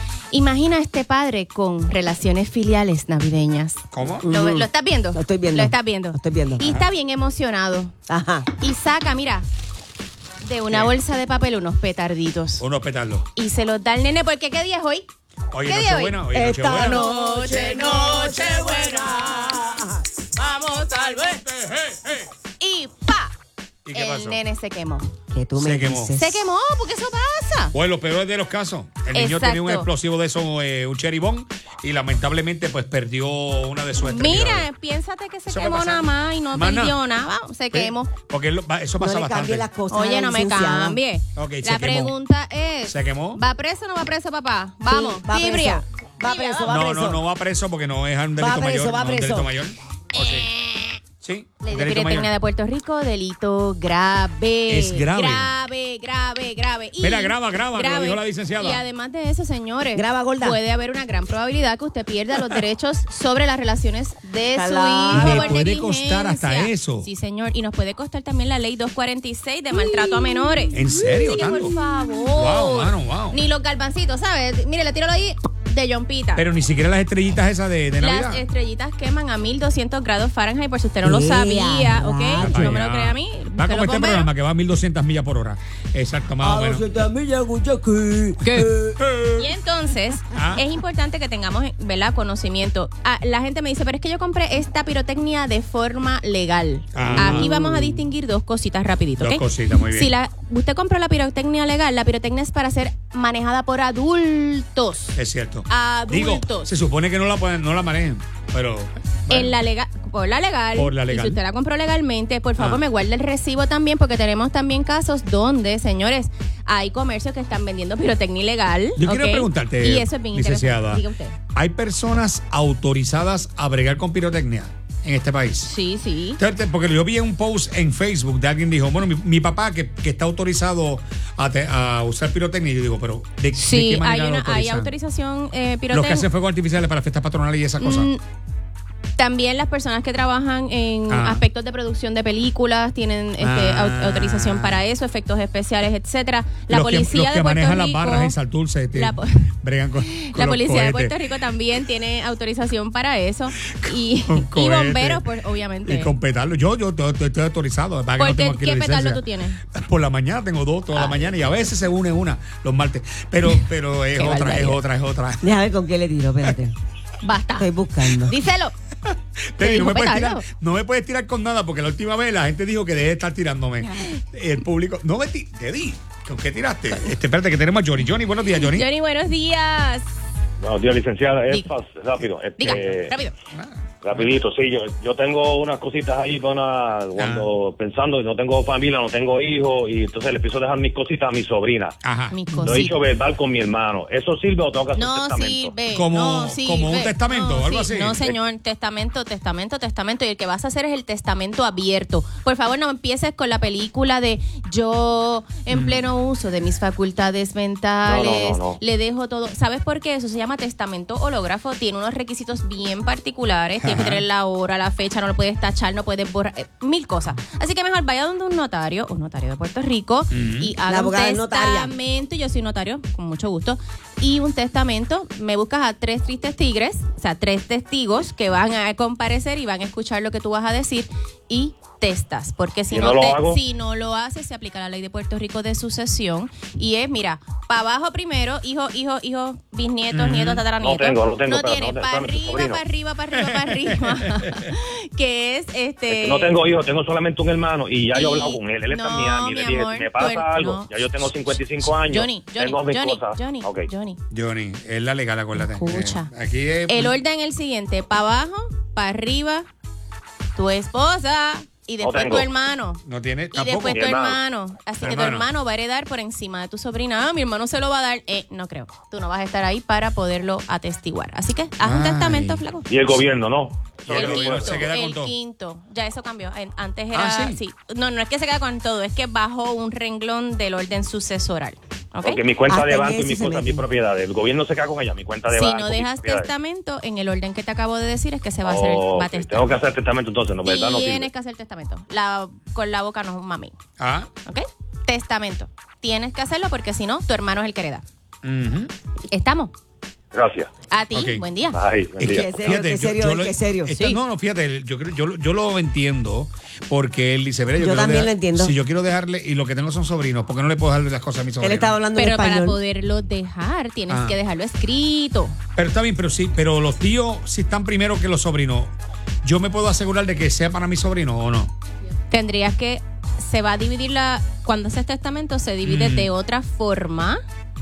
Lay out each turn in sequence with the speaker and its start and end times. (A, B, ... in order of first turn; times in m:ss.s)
0:00.3-0:07.9 A
0:03.9-0:04.2 B
0:04.2-0:06.6 C
0:06.6-0:06.9 B
0:08.1-0:08.5 C
0:08.6-0:09.5 A
0:10.4-0:12.6 A
0:12.6-0:13.2 B
0:13.3-0:15.1 A
0:15.5-0:17.0 B
0:15.6-0:16.2 A
0:16.3-0:19.9 C
0:16.8-0:19.8 A
0:20.3-0:21.4 A
0:21.3-0:22.3 B
0:22.6-0:23.3 A
0:23.8-0:24.4 B
0:23.9-0:25.1 A
0:25.3-0:26.4 C
0:25.6-0:26.1 B
0:26.1-0:27.7 A
0:27.7-0:34.7 B
0:29.1-0:29.9 A
0:34.0-0:38.1 A
0:35.5-0:37.0 B
0:37.7-0:39.7 B
0:39.0-0:41.0 C
0:39.9-0:46.8 A
0:41.4-0:42.1 B
0:42.9-0:43.4 B
0:44.8-0:47.2 C
0:46.7-0:50.5 B
0:48.4-0:49.5 C
0:50.1-0:51.0 A
0:51.2-0:52.3 B
0:51.6-1:16.4 A
0:54.7-0:55.5 B
0:57.0-0:58.8 B
0:59.9-1:00.6 C
1:04.5-1:05.5 C
1:05.1-1:07.1 B
1:10.7-1:11.7 B
1:12.3-1:13.4 B
1:16.4-1:18.4 B
1:18.0-1:24.3 A
1:21.0-1:22.8 C
1:22.4-1:26.8 B
1:26.4-1:29.0 C
1:28.4-1:29.5 B
1:29.4-1:45.2 A
1:30.3-1:30.6 B
1:36.9-1:37.5 B
1:37.0-1:38.0 C
1:39.2-1:40.1 B
1:45.1-1:49.6 B
1:45.7-1:46.7 A
1:49.3-2:01.4 A
1:50.7-1:51.4 B
1:52.6-1:52.8 B
1:59.0-2:01.0 B
2:01.5-2:05.7 B
2:05.6-2:06.4 A
2:06.4-2:14.9 B
2:13.5-2:16.3 A
2:15.9-2:18.1 B
2:17.8-2:18.2 A
2:19.2-2:28.4 A
2:21.1-2:21.4 B
2:23.4-2:24.8 B
2:26.7-2:31.1 B
2:28.9-2:36.1 A
2:33.6-2:35.2 B
2:35.8-2:45.4 B
2:38.2-2:39.6 A
2:40.9-2:41.3 A
2:44.2-2:44.7 C
2:44.3-2:44.8 A
2:45.4-2:46.7 C
2:47.2-2:48.7 A
2:47.6-2:48.3 C
2:49.0-2:58.8 B
2:49.6-2:50.4 A
2:53.8-2:54.1 A
2:58.5-3:00.1 A
3:00.6-3:03.1 D
3:02.6-3:03.3 A
3:03.5-3:03.8 B
3:04.0-3:12.0 D
3:07.2-3:07.5 B
3:12.0-3:12.4 B
3:12.3-3:13.0 A
3:12.5-3:15.7 D
3:14.9-4:06.6 A
3:15.9-3:18.2 B
3:25.7-3:26.1 B
3:28.0-3:28.8 D
3:33.8-3:34.2 B
3:40.3-3:40.7 B
3:40.8-3:41.9 C
3:52.9-3:53.6 D
4:00.1-4:00.7 B
4:00.8-4:02.8 D
4:03.4-4:04.7 B
4:06.1-4:13.9 D
4:08.1-4:10.9 A
4:12.0-4:14.2 A
4:14.3-4:17.1 B
4:15.5-4:16.3 A
4:16.9-4:19.7 A
4:20.5-4:23.0 A
4:22.0-4:22.5 D
4:23.0-4:24.0 B
4:23.5-4:32.9 A
4:23.9-4:24.4 D
4:25.0-4:25.5 B
4:31.8-4:32.6 B
4:32.9-4:34.9 D
4:34.1-4:35.3 B
4:34.1-4:42.4 A
4:37.1-4:37.6 B
4:42.2-4:46.5 D
4:42.7-4:43.8 C
4:45.5-4:49.8 A
4:48.6-4:51.3 D
4:50.6-4:53.8 A
4:54.0-4:54.3 B
4:54.4-4:58.0 A
4:58.4-4:58.9 B
4:59.3-4:59.7 A
5:00.3-5:00.7 D
5:00.9-5:01.8 A
5:01.1-5:01.5 B
5:01.7-5:02.5 D
5:02.2-5:03.9 C
5:02.6-5:12.0 B
5:07.8-5:08.7 C
5:11.6-5:12.8 C
5:12.2-5:15.6 A
5:14.1-5:14.4 B
5:15.8-5:21.7 B
5:22.3-5:27.4 A
5:25.8-5:26.3 B